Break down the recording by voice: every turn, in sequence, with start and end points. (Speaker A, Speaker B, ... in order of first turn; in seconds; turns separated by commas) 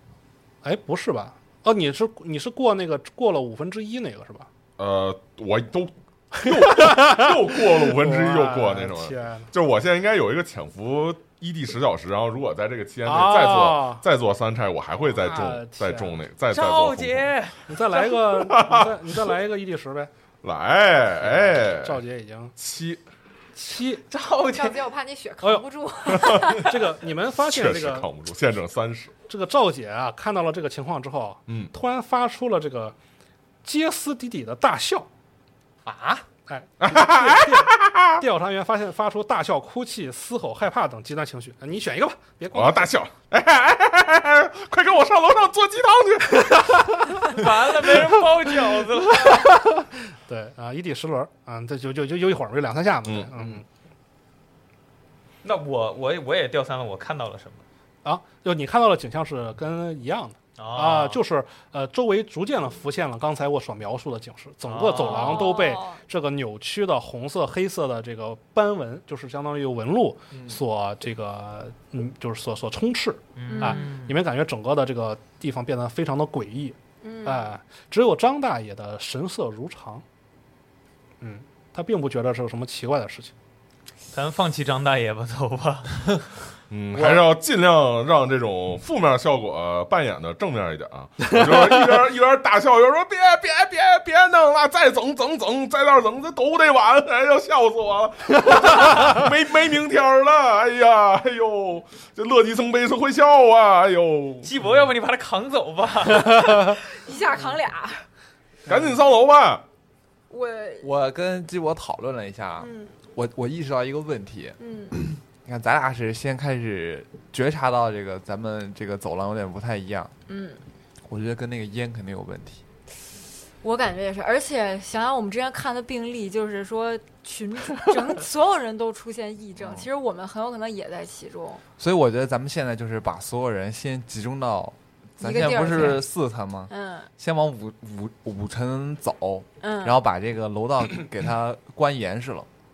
Speaker A: 0.6-4.5, Speaker B: 4.8-17.3, Speaker A: 6.3-9.5, Speaker A: 13.0-14.0, Speaker A: 15.0-16.2, Speaker C: 16.5-17.8, Speaker A: 17.7-20.1, Speaker B: 18.2-19.0, Speaker B: 20.4-22.0, Speaker A: 21.2-22.5, Speaker B: 22.6-23.0, Speaker A: 23.5-24.0, Speaker C: 24.1-24.8, Speaker D: 24.5-26.8, Speaker B: 26.1-26.6, Speaker A: 26.3-28.1, Speaker B: 27.3-29.1, Speaker A: 29.3-33.0, Speaker B: 31.5-31.7, Speaker A: 33.6-35.1, Speaker A: 35.9-42.9, Speaker B: 36.8-38.2, Speaker B: 42.5-47.4, Speaker C: 47.2-49.5, Speaker A: 49.2-53.6, Speaker B: 53.1-53.6, Speaker C: 55.4-57.6, Speaker A: 58.0-80.0, Speaker C: 60.6-61.2, Speaker C: 64.7-65.6, Speaker D: 65.0-66.0, Speaker C: 73.3-74.1, Speaker D: 73.4-74.0, Speaker D: 77.0-77.5, Speaker A: 81.2-83.3, Speaker C: 84.1-86.3, Speaker B: 86.7-104.5, Speaker A: 91.3-91.9, Speaker A: 98.5-98.9, Speaker C: 104.4-106.8, Speaker D: 106.3-108.0, Speaker B: 108.7-109.6, Speaker D: 110.3-110.9, Speaker E: 110.8-120.1, Speaker D: 112.6-113.0, Speaker D: 114.6-115.0, Speaker D: 120.3-120.6, Speaker E: 121.0-122.6, Speaker D: 123.6-131.6, Speaker E: 129.6-129.8, Speaker E: 131.8-142.5, Speaker D: 135.2-136.1, Speaker D: 136.7-137.1, Speaker D: 139.6-140.0